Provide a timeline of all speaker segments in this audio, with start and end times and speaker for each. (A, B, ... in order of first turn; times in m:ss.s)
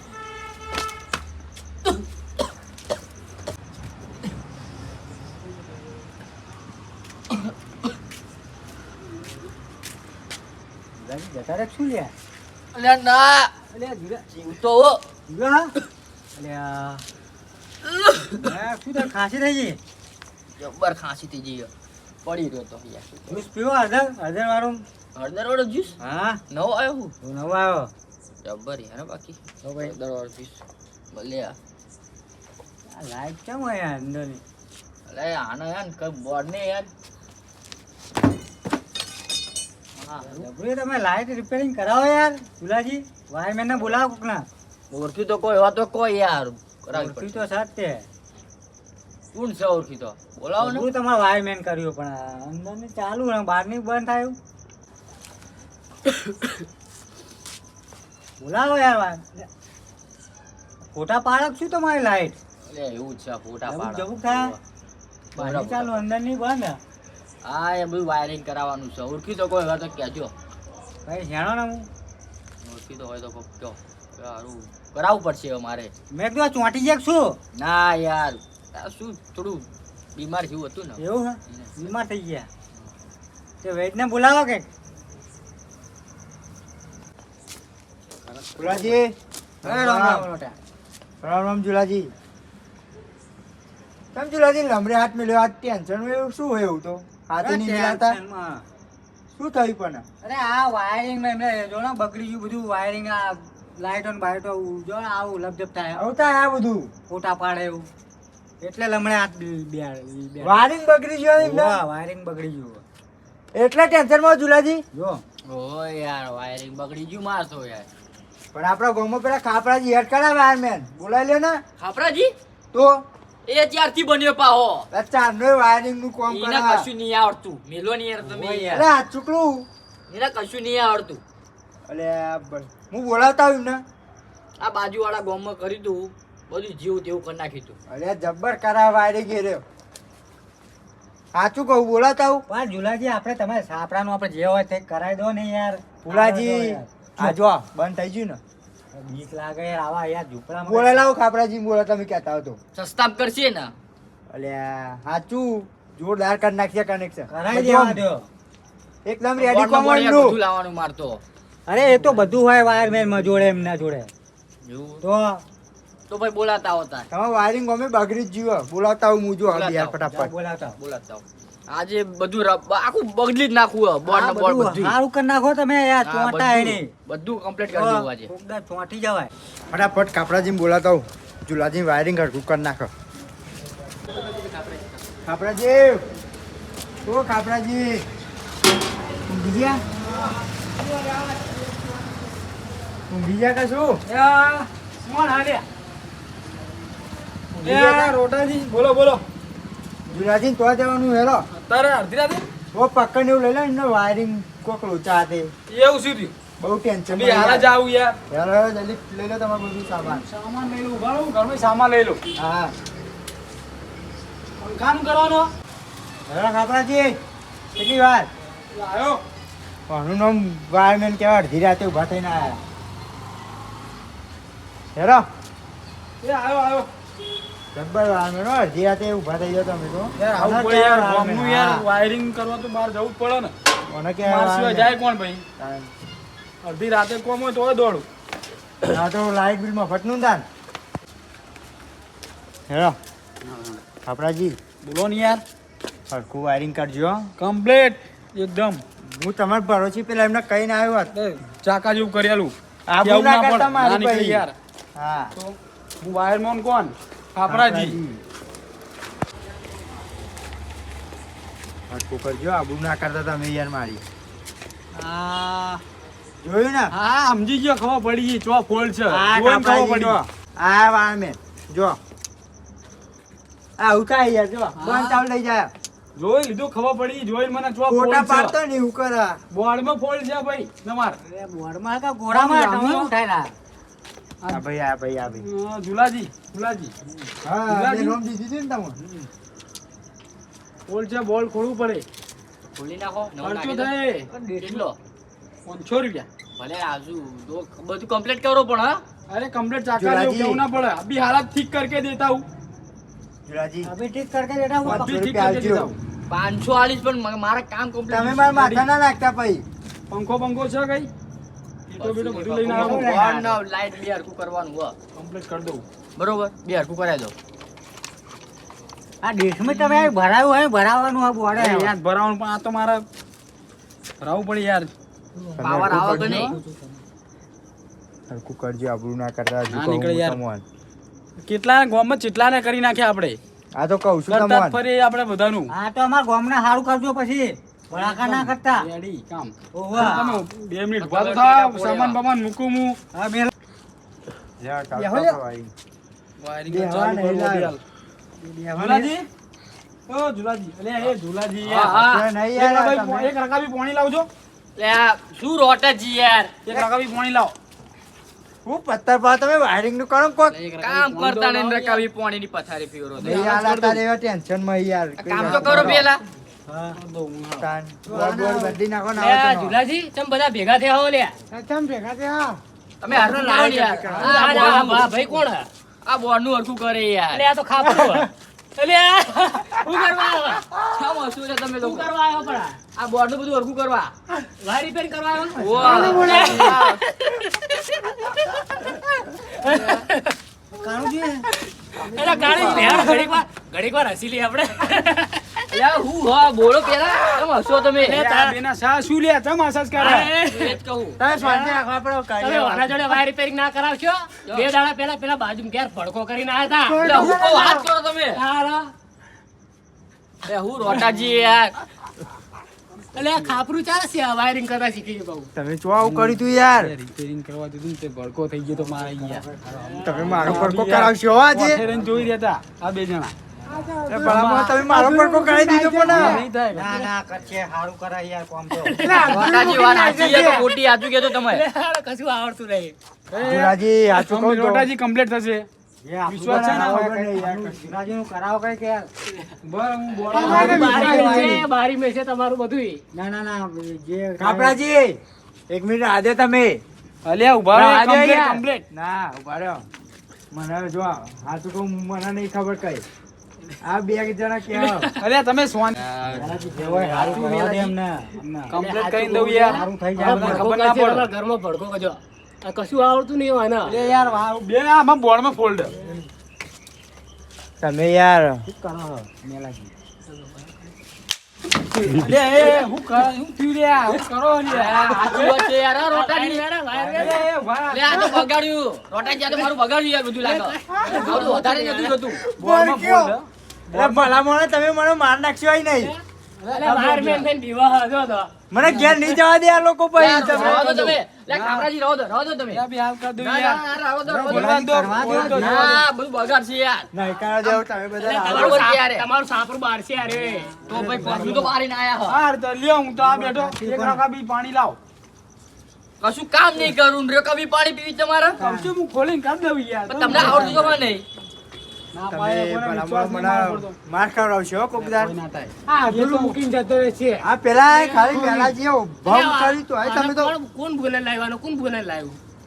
0:11.0-0:12.1 A
0:12.7-0:13.5 B
0:13.7-0:14.2 A
0:14.3-0:15.0 B
0:15.3-0:15.7 A
0:16.4-0:17.0 A
0:17.8-0:18.4 B
0:18.3-0:19.8 A
0:20.6-0:21.7 B
0:22.2-0:23.4 B
0:23.3-0:24.8 A
0:25.1-0:26.0 B
0:26.0-0:26.4 A
0:26.5-0:27.1 B
0:27.2-0:27.9 A
0:28.4-0:30.6 B
0:29.6-0:30.0 A
0:31.1-0:31.6 B
0:32.9-0:34.4 A
0:35.1-0:36.9 B
0:40.0-0:44.5 A
0:40.1-0:40.4 B
0:44.9-0:47.4 B
0:46.9-0:48.1 A
0:49.3-0:50.9 B
0:50.6-0:54.4 A
0:58.4-0:59.4 A
1:00.9-1:02.4 A
1:02.6-1:04.6 B
1:03.6-1:04.6 A
1:05.3-1:06.0 B
1:05.4-1:06.8 A
1:07.4-1:10.3 B
1:11.0-1:11.9 A
1:12.6-1:15.9 B
1:16.1-1:17.4 A
1:17.5-1:21.9 B
1:21.0-1:22.5 A
1:23.6-1:24.6 A
1:28.6-1:30.3 C
1:28.6-1:29.0 A
1:29.6-1:30.6 A
1:31.2-1:32.1 C
1:34.1-1:38.2 C
1:37.4-1:38.6 A
1:39.3-1:40.0 C
1:40.2-1:46.1 A
1:45.9-1:46.9 C
1:47.1-1:47.9 A
1:48.6-1:50.6 A
1:50.4-1:51.8 C
1:51.4-1:52.8 A
1:53.5-1:54.8 C
1:54.9-1:55.2 A
1:55.5-1:57.9 B
1:58.5-2:01.6 C
2:01.8-2:02.3 B
2:02.7-2:03.0 C
2:03.4-2:04.9 B
2:04.9-2:06.9 C
2:06.3-2:08.8 B
2:08.2-2:08.9 A
2:08.7-2:09.6 C
2:10.1-2:11.2 B
2:11.9-2:13.8 C
2:14.6-2:17.7 B
2:17.9-2:19.6 C
2:21.3-2:22.4 C
2:22.5-2:27.4 A
2:26.0-2:28.4 C
2:28.9-2:31.0 A
2:30.6-2:32.6 C
2:32.7-2:33.7 B
2:34.3-2:38.0 C
2:37.3-2:38.2 A
2:39.0-2:40.4 C
2:39.4-2:41.2 B
2:41.7-2:44.1 A
2:44.6-2:45.0 B
2:45.0-2:45.4 A
2:46.1-2:47.1 B
2:47.1-2:50.3 C
2:49.5-2:50.0 B
2:49.9-2:50.8 A
2:50.8-2:55.0 B
2:54.0-2:56.9 A
2:56.0-2:58.3 B
2:57.7-2:59.3 A
2:59.7-3:02.9 C
3:05.2-3:06.0 C
3:07.0-3:08.0 C
3:09.3-3:09.8 C
3:13.1-3:14.0 C
3:14.1-3:15.6 D
3:17.5-3:18.2 C
3:17.6-3:19.2 D
3:20.1-3:21.4 C
3:21.6-3:22.4 D
3:22.7-3:25.5 C
3:25.7-3:26.4 D
3:26.6-3:27.7 C
3:27.1-3:28.2 D
3:28.3-3:30.2 C
3:30.1-3:32.2 D
3:32.4-3:32.7 C
3:34.6-3:35.5 D
3:36.3-3:37.1 C
3:37.7-3:38.3 C
3:38.7-3:39.2 D
3:39.9-3:42.6 C
3:44.9-3:45.2 C
3:46.2-3:46.9 D
3:47.7-3:51.8 C
3:50.2-3:53.5 D
3:53.9-3:55.0 C
3:54.2-3:55.4 D
3:55.6-3:55.9 C
3:56.6-3:58.0 D
3:58.8-4:00.4 C
4:02.7-4:03.0 C
4:03.4-4:03.8 D
4:04.0-4:04.6 C
4:04.8-4:05.4 D
4:06.1-4:07.3 C
4:07.4-4:08.8 D
4:09.0-4:11.1 C
4:11.1-4:14.5 D
4:12.9-4:15.3 C
4:15.4-4:18.0 D
4:17.4-4:18.0 C
4:21.9-4:24.0 C
4:24.9-4:25.8 A
4:26.4-4:26.9 C
4:27.0-4:30.2 D
4:29.1-4:32.0 C
4:33.8-4:35.7 C
4:34.9-4:35.2 A
4:36.2-4:38.6 D
4:37.8-4:39.4 C
4:39.5-4:41.2 D
4:41.2-4:43.5 A
4:42.3-4:43.1 D
4:44.5-4:45.4 C
4:45.4-4:46.9 D
4:47.4-4:49.0 C
4:47.7-4:48.2 D
4:50.9-4:52.0 D
4:52.8-4:53.9 B
4:53.4-4:54.3 D
4:54.3-4:54.7 A
4:54.5-4:55.0 B
4:55.6-4:56.3 D
4:56.6-4:59.0 B
4:59.3-5:02.4 D
4:59.9-5:00.6 C
5:03.4-5:03.9 C
5:03.8-5:05.1 A
5:04.8-5:06.0 D
5:04.8-5:05.9 C
5:06.3-5:08.8 B
5:08.1-5:09.6 C
5:10.1-5:11.1 D
5:11.9-5:13.1 D
5:12.0-5:14.9 B
5:12.7-5:13.6 A
5:15.2-5:15.8 D
5:16.2-5:17.3 B
5:19.2-5:21.9 A
5:19.7-5:20.0 D
5:21.5-5:23.0 D
5:24.2-5:24.9 D
5:25.6-5:26.5 C
5:25.6-5:26.5 B
5:25.6-5:27.0 A
5:28.3-5:30.6 C
5:29.7-5:30.4 D
5:31.4-5:33.4 D
5:33.7-5:34.8 C
5:34.3-5:35.7 D
5:35.7-5:38.9 A
5:37.9-5:43.0 D
5:39.7-5:40.4 A
5:41.0-5:42.2 B
5:43.1-5:43.5 A
5:44.6-5:45.7 C
5:44.9-5:45.4 A
5:46.4-5:47.8 D
5:46.7-5:47.8 C
5:48.4-5:49.1 A
5:48.8-5:49.2 D
5:50.1-5:54.3 D
5:51.6-5:52.3 B
5:51.9-5:53.3 C
5:54.8-5:56.5 B
5:56.6-5:57.5 D
5:58.6-6:00.6 C
6:00.5-6:02.1 D
6:00.7-6:03.4 B
6:03.2-6:04.0 D
6:03.2-6:06.1 C
6:05.2-6:06.2 B
6:06.7-6:07.0 A
6:06.9-6:07.7 D
6:07.5-6:09.8 C
6:08.1-6:08.8 A
6:09.2-6:11.4 E
6:11.5-6:14.8 C
6:13.0-6:15.1 B
6:14.2-6:15.7 E
6:16.0-6:17.4 B
6:17.3-6:20.7 E
6:20.8-6:22.1 B
6:21.8-6:22.8 E
6:23.0-6:24.1 B
6:24.6-6:30.4 E
6:25.6-6:27.0 B
6:29.6-6:30.0 B
6:30.7-6:31.5 A
6:32.0-6:32.7 C
6:32.1-6:35.6 E
6:32.4-6:33.0 B
6:32.7-6:33.0 D
6:35.7-6:38.2 B
6:38.0-6:38.6 E
6:38.1-6:40.3 D
6:40.0-6:40.8 E
6:40.4-6:41.2 B
6:41.2-6:43.2 C
6:41.3-6:41.7 E
6:42.4-6:47.5 E
6:46.8-6:47.9 C
6:47.0-6:48.4 B
6:48.3-6:48.9 E
6:50.4-6:51.8 B
6:53.1-6:55.5 E
6:55.5-6:56.9 C
6:56.0-6:59.4 D
6:58.7-7:00.5 A
6:59.7-7:00.7 E
7:00.0-7:01.8 C
7:00.3-7:03.3 D
7:03.9-7:04.6 A
7:04.0-7:06.4 C
7:04.1-7:06.9 D
7:06.7-7:10.7 A
7:08.8-7:13.0 E
7:09.1-7:10.6 C
7:09.2-7:11.6 B
7:13.3-7:15.7 D
7:13.4-7:14.9 C
7:16.0-7:19.1 A
7:16.3-7:17.1 D
7:16.4-7:18.0 C
7:19.6-7:21.4 D
7:20.3-7:23.0 E
7:20.3-7:21.6 A
7:20.4-7:21.0 C
7:23.1-7:24.8 A
7:24.4-7:25.2 C
7:25.7-7:26.8 C
7:27.2-7:28.8 D
7:27.7-7:29.8 C
7:30.5-7:33.0 C
7:33.8-7:35.1 C
7:35.2-7:36.0 D
7:35.9-7:37.9 B
7:36.3-7:38.4 A
7:38.5-7:41.3 D
7:38.7-7:44.0 E
7:39.7-7:40.7 A
7:43.9-7:45.9 D
7:47.8-7:48.6 C
7:48.7-7:49.9 A
7:50.3-7:50.7 E
7:52.0-7:55.6 D
7:54.7-7:56.6 B
7:56.1-7:57.5 E
7:57.0-7:57.4 A
7:57.1-7:58.4 D
7:57.9-8:02.4 B
7:59.3-7:59.7 E
8:00.4-8:02.2 E
8:02.3-8:03.4 C
8:02.6-8:04.4 D
8:03.9-8:06.1 C
8:06.6-8:07.4 D
8:06.7-8:08.5 E
8:08.7-8:11.2 C
8:08.8-8:09.2 D
8:10.2-8:12.8 B
8:10.2-8:11.9 D
8:12.7-8:16.0 D
8:13.4-8:14.8 B
8:14.4-8:16.0 A
8:15.3-8:17.1 B
8:17.1-8:18.8 C
8:18.2-8:20.7 E
8:18.4-8:19.2 B
8:20.3-8:21.6 A
8:20.9-8:22.4 B
8:20.9-8:21.7 D
8:22.3-8:25.0 D
8:23.2-8:24.2 A
8:26.2-8:28.6 B
8:28.6-8:28.9 A
8:28.6-8:31.0 D
8:30.1-8:31.2 B
8:30.4-8:30.7 E
8:32.1-8:33.9 D
8:32.3-8:35.3 C
8:35.0-8:36.6 D
8:35.9-8:38.7 E
8:37.4-8:40.5 C
8:39.2-8:42.4 E